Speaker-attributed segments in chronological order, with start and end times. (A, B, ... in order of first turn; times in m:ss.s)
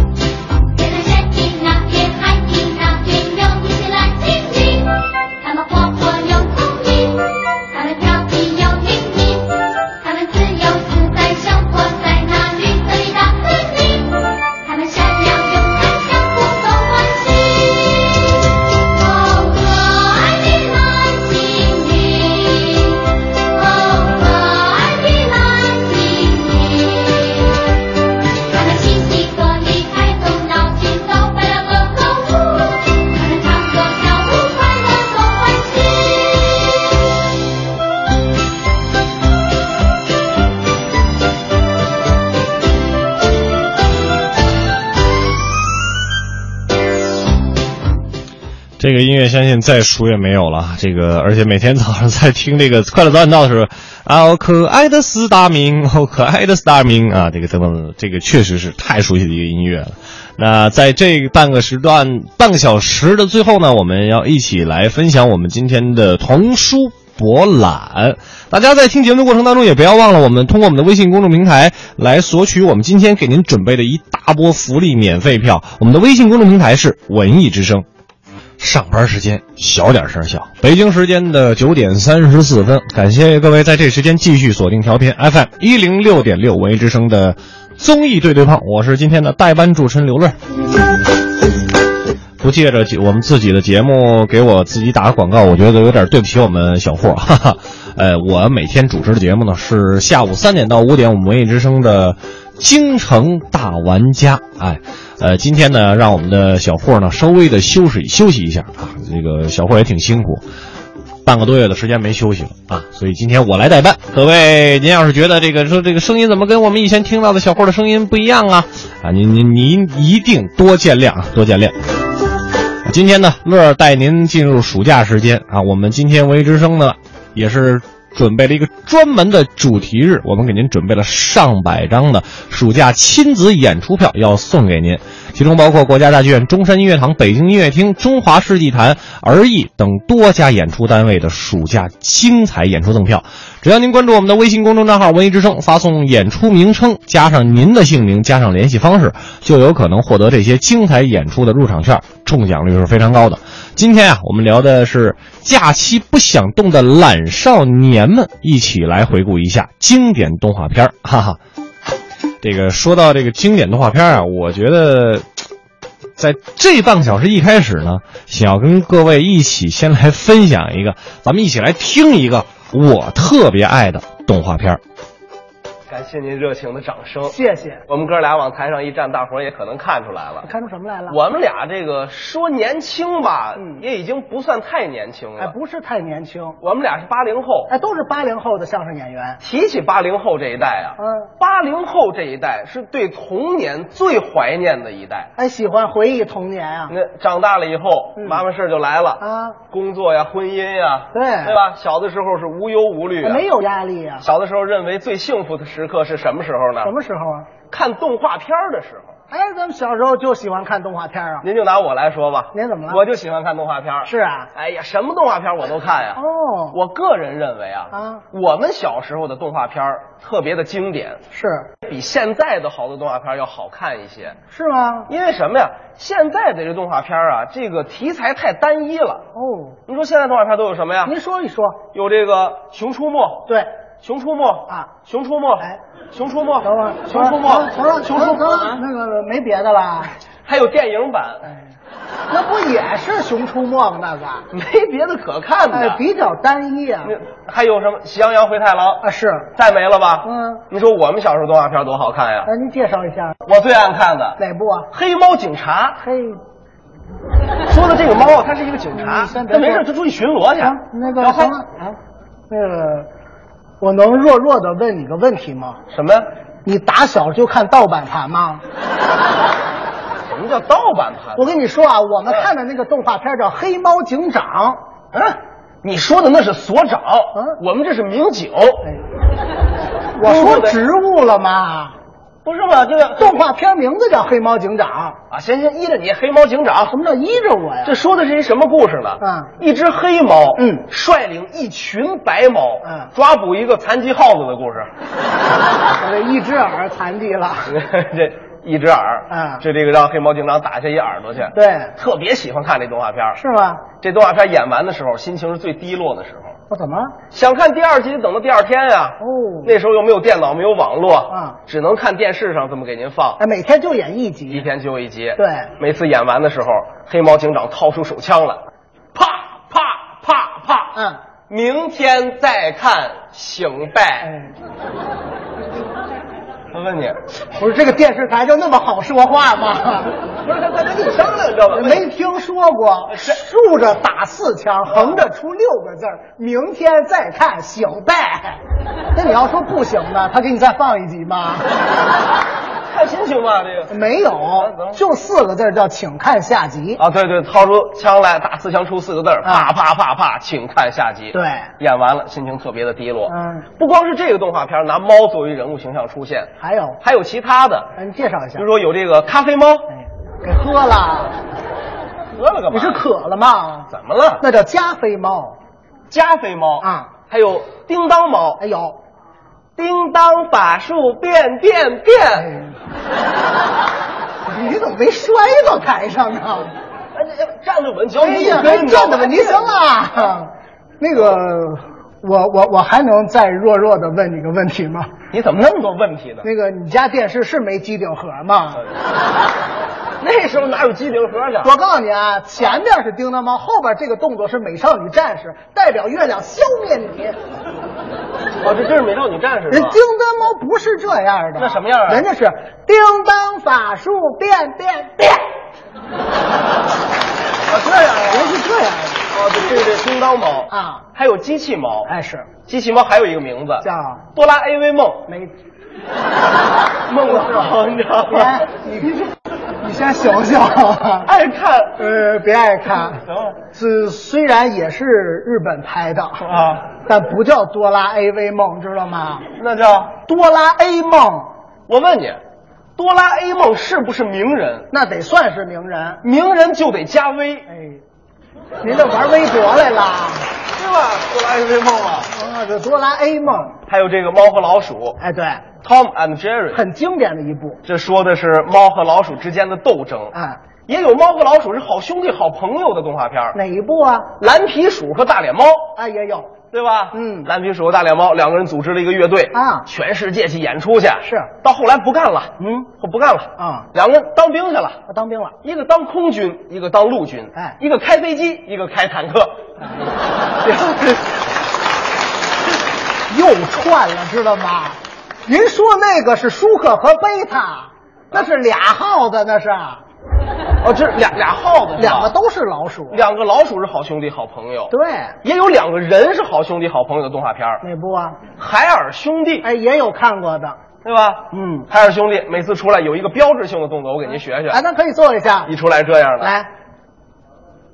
0:00.7-0:27.8 A
0:28.5-0:36.9 A
0:48.8-1:17.9 B
1:18.6-1:30.4 B
1:32.4-1:50.4 B
1:51.2-2:01.8 B
2:02.8-2:41.4 B
2:42.4-2:45.2 B
2:46.2-2:54.8 B
2:55.9-2:57.4 C
2:57.3-2:57.8 D
2:57.9-3:00.5 C
3:00.4-3:01.2 D
3:01.1-3:05.5 C
3:05.4-3:06.6 D
3:06.6-3:07.7 C
3:07.7-3:09.4 D
3:09.4-3:15.3 C
3:11.0-3:11.3 D
3:15.4-3:16.9 D
3:16.9-3:23.4 C
3:18.2-3:18.4 D
3:19.2-3:19.6 D
3:21.1-3:21.6 D
3:23.2-3:24.3 D
3:24.2-3:26.9 C
3:26.8-3:27.5 D
3:27.7-3:29.2 C
3:29.3-3:31.4 D
3:31.4-3:41.2 C
3:32.5-3:33.0 D
3:34.0-3:34.5 D
3:36.2-3:36.8 D
3:37.9-3:38.2 D
3:41.3-3:41.7 D
3:41.8-3:44.4 C
3:44.5-3:45.1 D
3:45.1-3:49.3 C
3:49.4-3:49.8 D
3:49.9-3:51.2 C
3:51.1-3:51.9 D
3:51.9-3:53.5 C
3:54.0-3:58.8 C
3:56.6-4:00.1 D
4:00.5-4:01.5 C
4:02.3-4:04.5 D
4:04.5-4:06.0 C
4:05.7-4:07.1 D
4:07.0-4:09.0 C
4:09.0-4:09.5 D
4:09.6-4:12.5 C
4:10.2-4:10.6 D
4:12.5-4:13.4 D
4:13.5-4:14.4 C
4:14.4-4:14.9 D
4:14.9-4:16.0 C
4:16.0-4:16.4 D
4:17.7-4:21.5 C
4:19.0-4:19.9 D
4:20.6-4:22.0 D
4:22.5-4:23.1 D
4:23.8-4:25.8 D
4:25.9-4:26.3 C
4:26.6-4:28.6 D
4:30.3-4:31.6 C
4:31.4-4:34.8 D
4:35.1-4:38.8 C
4:40.2-4:42.0 D
4:40.2-4:40.8 C
4:42.4-4:43.4 C
4:43.2-4:45.2 D
4:45.3-4:47.0 C
4:46.9-4:48.0 D
4:47.8-4:54.9 C
4:49.2-4:49.5 D
4:50.6-4:50.8 D
4:52.8-4:53.1 D
4:56.0-4:57.8 D
4:57.7-5:03.4 C
4:59.3-4:59.6 D
5:01.5-5:01.9 D
5:03.4-5:03.8 D
5:04.0-5:06.6 C
5:06.7-5:07.2 D
5:07.3-5:13.4 C
5:09.2-5:09.7 D
5:11.3-5:11.6 D
5:13.4-5:14.7 D
5:14.5-5:21.0 C
5:15.4-5:15.7 D
5:21.0-5:21.2 D
5:21.5-5:24.3 C
5:24.2-5:24.5 D
5:26.7-5:27.2 C
5:27.6-5:30.1 D
5:30.4-5:32.1 C
5:31.7-5:38.6 D
5:34.9-5:35.2 C
5:39.2-5:41.7 D
5:42.9-5:44.0 C
5:43.9-5:47.0 D
5:44.6-5:45.0 C
5:47.0-5:57.9 C
5:49.4-5:49.7 D
5:51.3-5:51.7 D
5:53.3-5:53.7 D
5:56.6-5:57.0 D
5:58.0-5:58.6 D
5:58.6-5:59.9 C
5:59.9-6:01.4 D
6:02.4-6:03.0 C
6:02.7-6:05.6 D
6:03.9-6:04.4 C
6:06.1-6:08.6 C
6:06.8-6:07.1 D
6:08.6-6:09.0 D
6:09.8-6:12.5 C
6:12.4-6:12.7 D
6:14.5-6:16.7 D
6:17.1-6:19.8 C
6:18.2-6:25.1 D
6:25.3-6:26.5 C
6:26.4-6:28.8 D
6:30.2-6:31.7 C
6:31.6-6:37.4 D
6:38.6-6:40.0 C
6:39.7-6:45.4 D
6:41.6-6:42.3 C
6:47.7-6:48.6 C
6:48.2-6:49.3 D
6:49.3-6:52.1 C
6:50.7-6:51.1 D
6:52.1-6:52.5 D
6:52.7-6:55.3 C
6:53.8-6:54.2 D
6:55.3-6:55.5 D
6:57.1-6:58.7 C
6:57.2-6:59.3 D
6:59.8-7:01.3 D
7:01.2-7:02.2 C
7:02.0-7:09.5 D
7:03.1-7:03.6 C
7:06.4-7:06.9 C
7:09.6-7:10.2 C
7:10.3-7:11.5 D
7:11.9-7:12.4 C
7:13.0-7:14.9 C
7:14.9-7:16.2 D
7:16.2-7:17.7 C
7:17.7-7:18.0 D
7:18.8-7:20.5 D
7:20.8-7:22.3 C
7:22.3-7:23.8 D
7:23.9-7:25.2 C
7:25.2-7:25.7 D
7:25.8-7:26.8 C
7:26.7-7:27.8 D
7:27.8-7:30.3 C
7:30.3-7:30.6 D
7:30.9-7:33.6 C
7:33.5-7:34.3 D
7:34.4-7:35.9 C
7:36.0-7:36.6 D
7:36.7-7:45.0 C
7:37.1-7:37.5 D
7:39.5-7:39.9 D
7:41.2-7:41.5 D
7:42.6-7:42.9 D
7:43.6-7:43.9 D
7:45.1-7:45.6 D
7:45.6-7:49.6 C
7:50.6-7:51.2 C
7:53.3-8:00.0 D
8:00.8-8:02.3 C
8:02.0-8:03.2 D
8:03.1-8:04.9 C
8:04.9-8:05.4 D
8:05.4-8:07.8 C
8:07.8-8:08.4 D
8:08.6-8:09.7 C
8:09.6-8:10.8 D
8:11.0-8:14.8 C
8:11.5-8:11.9 D
8:14.7-8:15.7 D
8:15.7-8:16.5 C
8:16.4-8:16.7 D